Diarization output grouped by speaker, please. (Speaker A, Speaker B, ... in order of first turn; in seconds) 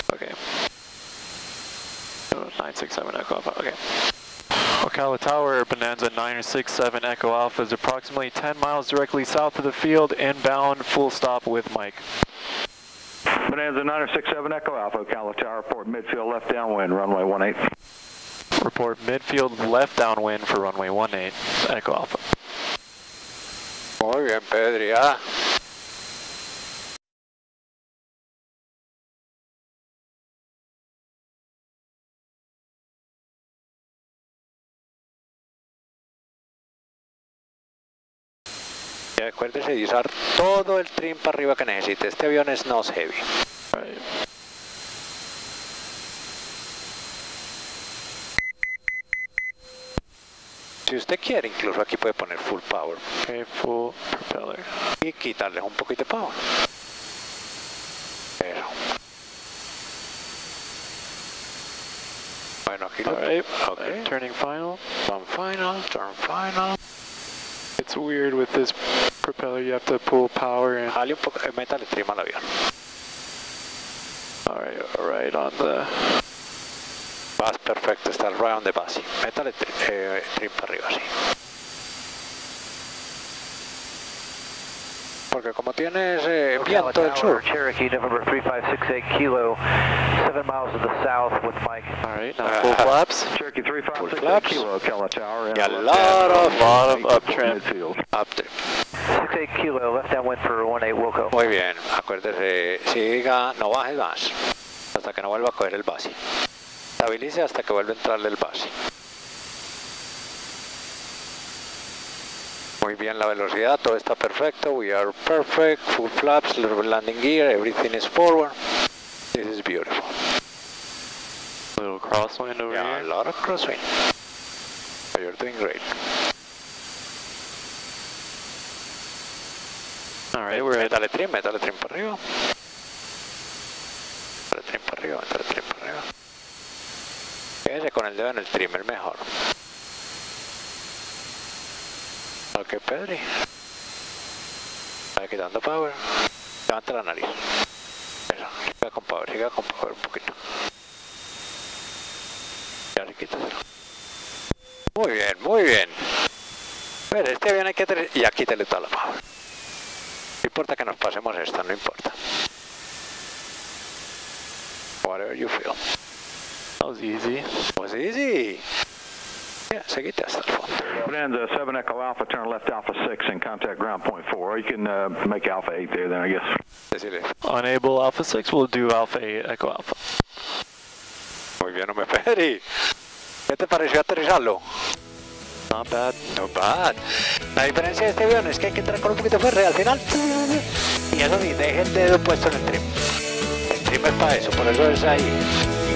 Speaker A: 0.1-0.4, 2.3-3.8, 4.8-12.1, 18.6-22.5, 43.7-44.0, 53.2-54.9, 63.0-64.9, 67.8-70.9, 74.5-76.2, 92.0-93.4, 96.0-97.6, 121.8-123.1, 130.3-130.9, 166.8-167.7, 177.4-180.2, 185.7-186.3
Speaker B: 13.4-17.6, 93.3-98.0, 170.9-176.5
Speaker C: 24.0-25.3, 39.2-43.2, 50.9-53.0, 55.0-56.5, 58.4-58.9, 62.7-64.1, 65.0-66.8, 70.9-72.5, 77.4-81.1, 85.3-87.5, 92.4-92.9, 93.9-94.7, 95.5-96.8, 98.1-98.7, 101.3-104.4, 104.9-106.3, 107.0-108.8, 112.8-118.8, 119.3-120.2, 122.7-123.8, 125.1-126.2, 130.5-132.4, 134.5-136.0, 137.6-139.4, 142.6-143.3, 145.2-147.5, 148.3-150.6, 152.9-153.5, 154.9-156.2, 157.1-159.2, 160.4-162.2, 165.0-165.8, 167.8-168.6, 169.7-170.9, 176.9-177.3, 181.6-182.8, 183.5-184.9, 186.3-193.0, 193.7-195.5
Speaker D: 86.5-91.9, 99.0-101.3